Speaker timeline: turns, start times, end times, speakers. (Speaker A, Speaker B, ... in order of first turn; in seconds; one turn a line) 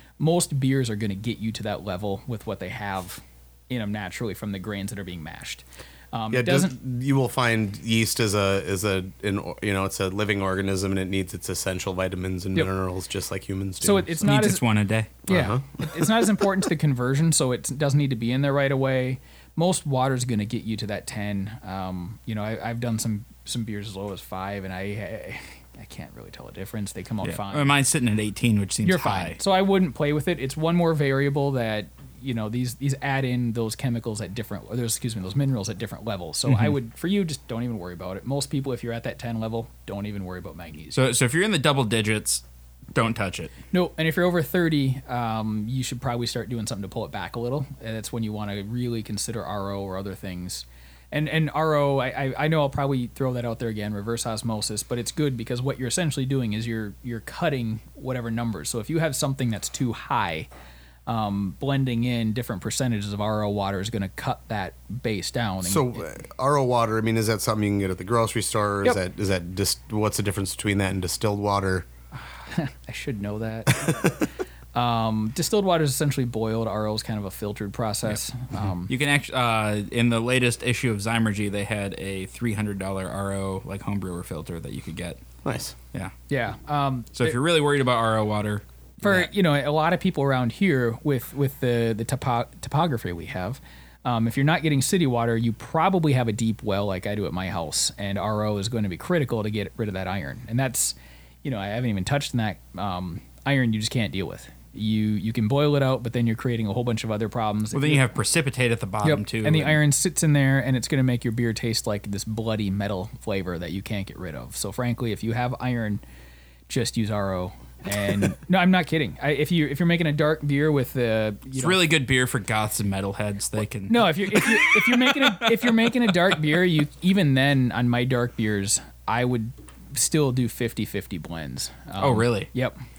Speaker A: 0.2-6.8
Speaker B: 6.3-14.3
Speaker A: 13.8-14.6
Speaker C: 14.2-15.2
Speaker B: 15.3-16.3
Speaker A: 15.3-27.7
Speaker C: 27.2-29.4
Speaker A: 28.8-41.0
Speaker C: 36.5-36.7
Speaker C: 40.9-42.4
Speaker C: 42.9-43.5
Speaker A: 43.7-60.5
Speaker A: 61.1-66.1
Speaker B: 65.6-71.9
Speaker A: 72.1-74.2
Speaker B: 73.7-74.2
Speaker A: 74.7-78.9
Speaker C: 78.9-85.2
Speaker B: 85.4-85.7
Speaker A: 86.3-87.4
Speaker C: 87.2-89.3
Speaker A: 89.0-108.0
Speaker C: 107.7-109.8
Speaker A: 109.0-116.0
Speaker A: 116.7-121.8
Speaker C: 121.5-125.4
Speaker A: 123.6-132.7
Speaker C: 132.0-132.5